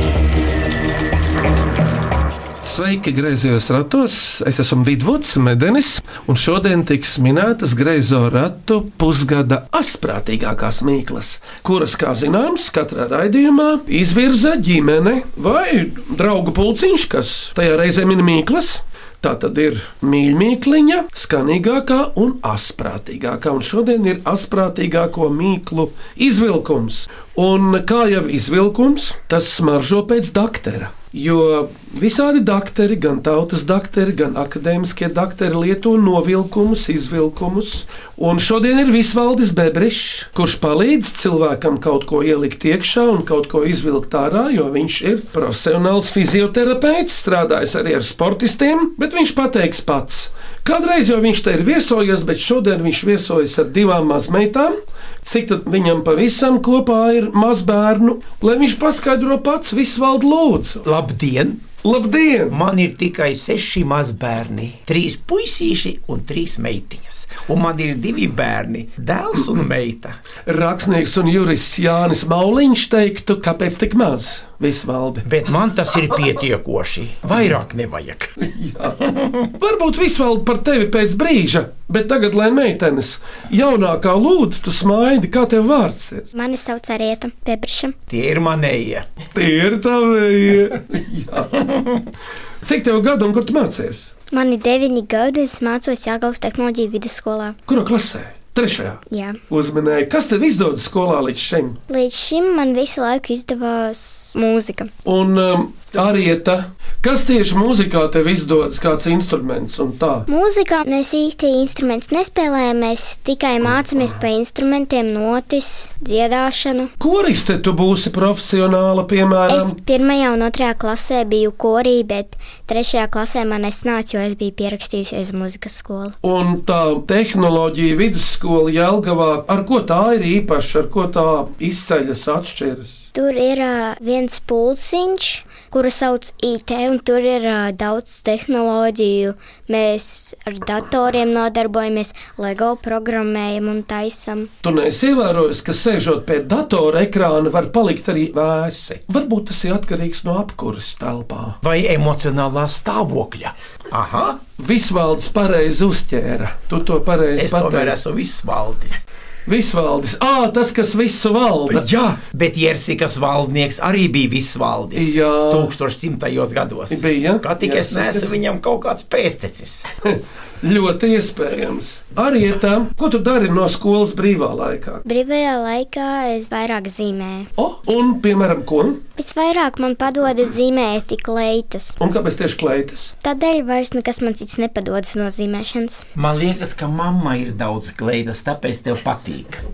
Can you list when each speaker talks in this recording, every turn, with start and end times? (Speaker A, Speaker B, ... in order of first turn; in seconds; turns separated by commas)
Speaker A: 2.6-60.9, Speaker B: 60.9-61.6, Speaker A: 61.8-62.6, Speaker B: 62.5-70.2, Speaker A: 70.5-75.2, Speaker B: 75.2-78.3, Speaker A: 78.5-86.3, Speaker C: 86.3-88.0, Speaker B: 88.1-89.0, Speaker A: 89.3-91.8, Speaker A: 92.6-94.1, Speaker C: 94.3-97.6, Speaker A: 97.7-101.8, Speaker C: 99.1-99.4, Speaker C: 101.9-104.9, Speaker A: 105.0-110.3, Speaker C: 110.3-116.9, Speaker A: 117.0-119.8, Speaker C: 119.5-126.2, Speaker A: 126.2-133.1, Speaker C: 133.1-144.5, Speaker A: 144.6-151.6, Speaker B: 151.6-154.4, Speaker A: 154.6-158.0, Speaker B: 157.4-159.0, Speaker A: 159.5-161.9, Speaker B: 161.7-169.8, Speaker A: 164.9-165.7, Speaker A: 166.9-168.4, Speaker A: 170.1-175.0, Speaker C: 175.1-177.5, Speaker A: 177.6-179.0, Speaker C: 179.2-182.0, Speaker A: 182.0-183.1, Speaker C: 183.2-186.1, Speaker B: 186.2-189.7